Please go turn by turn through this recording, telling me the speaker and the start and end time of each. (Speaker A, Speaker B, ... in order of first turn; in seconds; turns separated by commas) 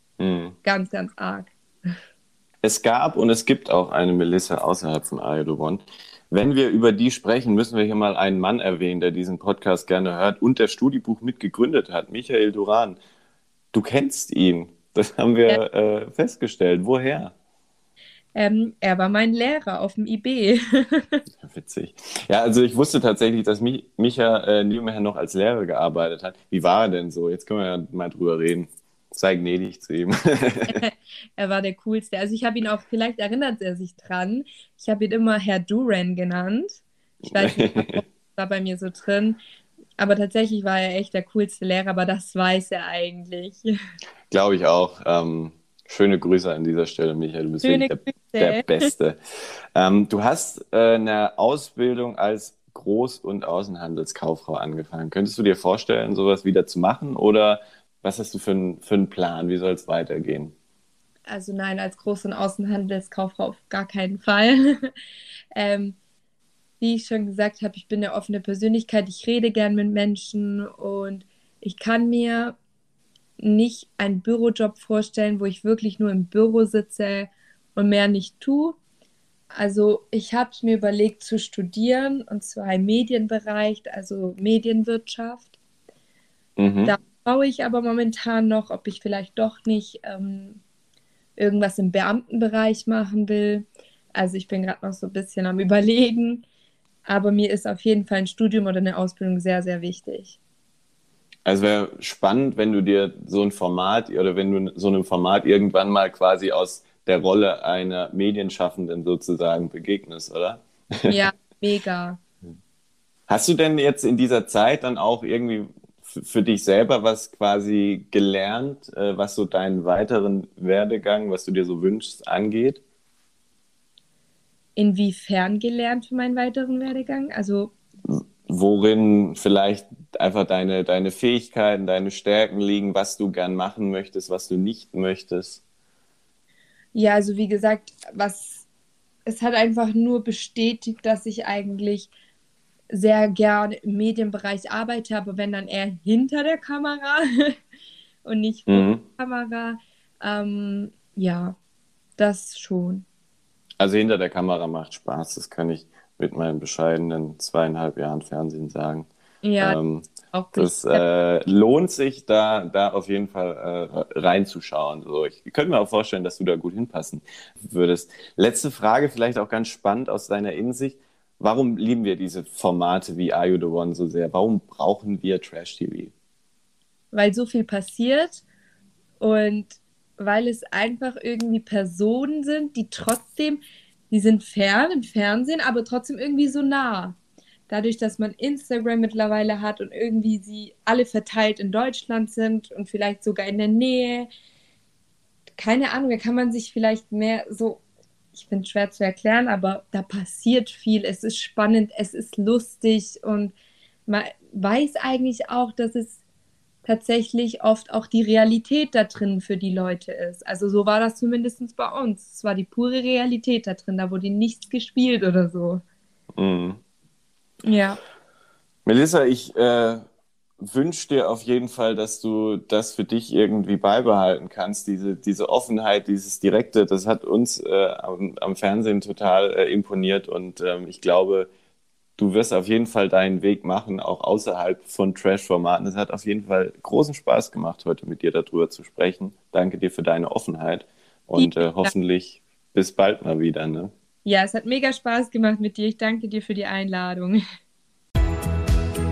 Speaker A: 0.2-0.6, Speaker B: 0.6-1.5, Speaker A: 2.6-13.0, Speaker A: 13.7-17.3, Speaker B: 18.3-21.2, Speaker A: 21.4-30.8, Speaker B: 30.7-39.4, Speaker A: 37.2-38.0, Speaker B: 40.0-43.7, Speaker A: 44.3-49.2, Speaker B: 47.6-48.9, Speaker A: 49.7-60.5, Speaker B: 61.3-64.9, Speaker B: 65.5-66.0, Speaker B: 66.8-72.5, Speaker B: 73.4-78.8, Speaker B: 79.5-85.5, Speaker A: 86.6-86.9, Speaker B: 86.8-90.6, Speaker B: 91.4-96.4, Speaker B: 97.0-100.4, Speaker A: 101.5-111.2, Speaker B: 111.1-112.2, Speaker A: 113.3-122.8, Speaker B: 124.8-127.7, Speaker A: 128.1-135.6, Speaker B: 136.9-138.7, Speaker B: 139.2-142.1, Speaker B: 142.9-147.6, Speaker B: 148.2-151.6, Speaker A: 148.7-149.0, Speaker B: 152.2-153.0, Speaker A: 153.8-159.1, Speaker B: 159.4-159.8, Speaker A: 159.6-176.1, Speaker B: 160.3-161.0, Speaker B: 177.1-178.4, Speaker B: 179.2-187.2, Speaker B: 187.7-194.3, Speaker B: 195.6-197.8, Speaker B: 198.3-203.5, Speaker B: 204.1-206.2, Speaker B: 206.8-215.8, Speaker A: 216.3-216.8, Speaker B: 217.6-218.0, Speaker A: 218.8-220.0, Speaker A: 220.6-231.5, Speaker A: 232.2-243.9, Speaker B: 241.4-241.9, Speaker B: 244.2-247.4